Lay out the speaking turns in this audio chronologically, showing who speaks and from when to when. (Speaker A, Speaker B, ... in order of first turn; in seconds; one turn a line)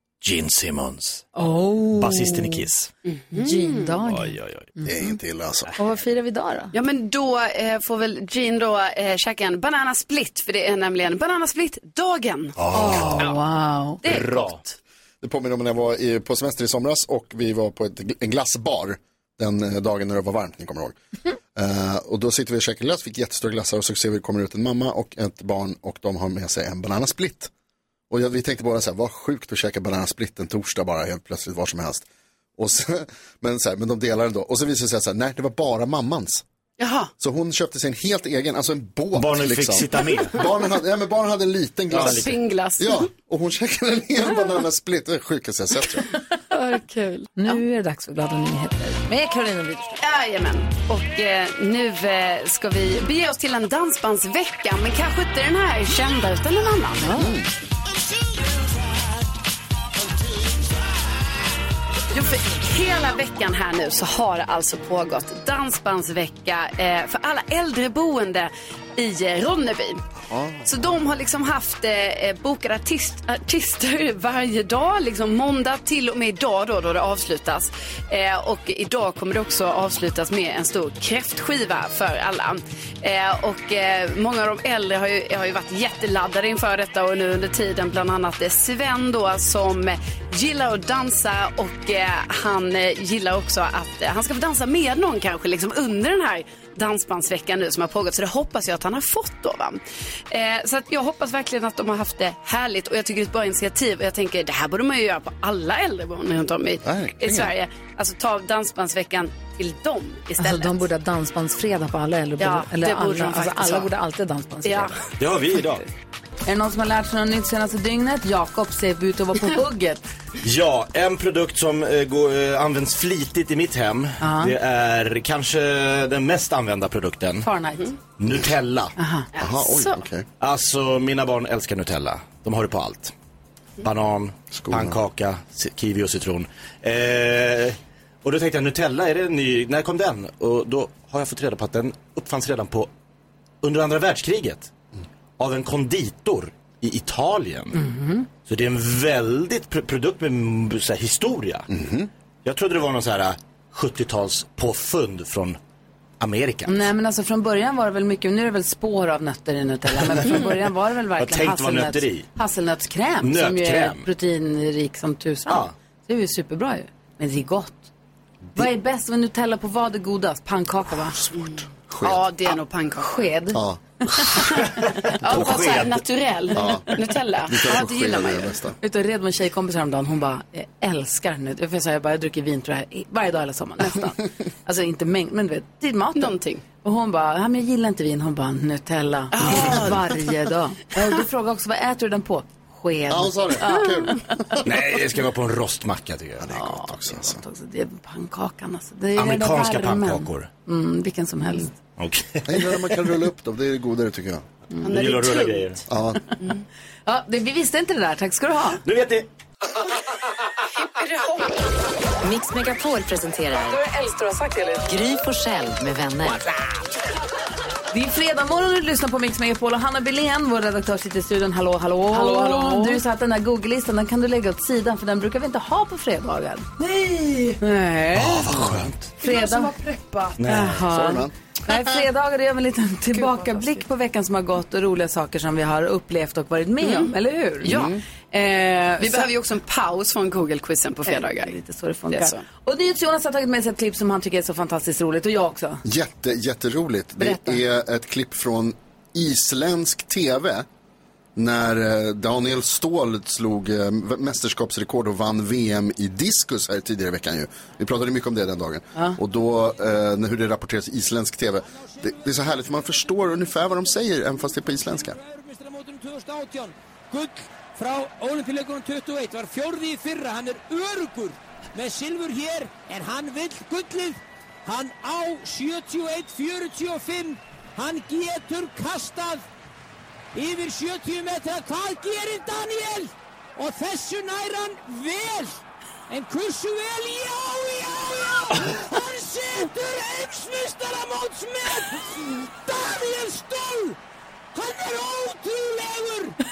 Speaker A: 0.2-1.3
Speaker B: 1.4-2.6
Speaker A: 1.9-2.9
Speaker C: 3.1-3.9
Speaker B: 3.3-5.1
Speaker A: 4.0-4.7
Speaker D: 4.8-5.7
Speaker B: 5.8-6.7
Speaker C: 6.7-13.3
Speaker A: 12.6-13.3
Speaker B: 12.7-14.0
Speaker A: 14.0-14.6
Speaker C: 14.0-14.5
Speaker D: 15.2-20.9
Speaker D: 21.5-27.5
Speaker D: 28.1-32.0
Speaker D: 32.6-36.4
Speaker C: 36.8-37.1
Speaker D: 37.2-46.0
Speaker A: 39.2-40.4
Speaker A: 41.9-42.3
Speaker C: 41.9-43.1
Speaker C: 46.5-47.3
Speaker B: 47.4-50.0
Speaker C: 50.0-57.3
Speaker B: 57.0-57.3
Speaker D: 57.2-57.5
Speaker C: 62.1-70.0
Speaker D: 70.2-70.7
Speaker C: 70.6-110.8
Speaker D: 106.8-107.5
Speaker B: 110.4-115.0
Speaker C: 112.4-113.9
Speaker C: 114.6-115.0
Speaker A: 115.2-115.8
Speaker B: 116.4-120.0
Speaker A: 120.4-127.5
Speaker B: 124.2-124.5
Speaker B: 127.4-127.9
Speaker A: 128.2-128.9
Speaker B: 129.0-129.2
Speaker C: 129.3-130.0
Speaker D: 129.4-130.2
Speaker A: 130.4-133.1
Speaker A: 133.8-142.9
Speaker D: 134.5-135.0
Speaker A: 143.6-144.7
Speaker A: 145.4-147.8
Speaker B: 147.7-148.2
Speaker A: 148.4-151.7
Speaker D: 151.7-152.1
Speaker A: 152.4-155.6
Speaker A: 156.2-156.9
Speaker B: 156.7-167.9
Speaker A: 161.2-162.3
Speaker A: 163.2-164.1
Speaker A: 165.5-165.7
Speaker B: 168.5-171.2
Speaker D: 171.2-172.2
Speaker C: 171.3-173.3
Speaker B: 173.0-173.6
Speaker D: 173.5-173.8
Speaker A: 174.8-176.0
Speaker C: 175.2-178.6
Speaker D: 175.3-175.6
Speaker D: 176.6-176.9
Speaker D: 177.5-178.8
Speaker B: 178.8-194.6
Speaker C: 186.2-186.6
Speaker C: 189.3-190.3
Speaker D: 193.1-194.6
Speaker A: 194.6-196.5
Speaker D: 196.4-197.4
Speaker B: 196.5-201.8
Speaker A: 199.1-200.5
Speaker A: 202.0-202.9
Speaker D: 202.5-204.4
Speaker C: 204.8-205.7
Speaker A: 204.9-205.8
Speaker D: 205.9-206.2
Speaker B: 207.1-208.8
Speaker A: 208.8-209.3
Speaker E: 212.2-213.8
Speaker B: 213.7-214.8
Speaker E: 214.8-216.6
Speaker B: 217.9-228.6
Speaker A: 228.1-229.2
Speaker D: 228.6-228.9
Speaker B: 229.2-237.7
Speaker A: 230.4-230.8
Speaker D: 230.5-231.7
Speaker C: 236.8-237.1
Speaker C: 237.6-237.9
Speaker D: 237.6-238.0
Speaker B: 238.3-239.3
Speaker C: 239.0-241.5
Speaker B: 241.1-245.8
Speaker C: 242.1-242.4
Speaker D: 245.8-250.7
Speaker B: 247.2-247.6
Speaker D: 251.3-265.2
Speaker F: 261.9-262.2
Speaker F: 265.0-279.4
Speaker F: 280.3-294.0
Speaker F: 294.5-296.4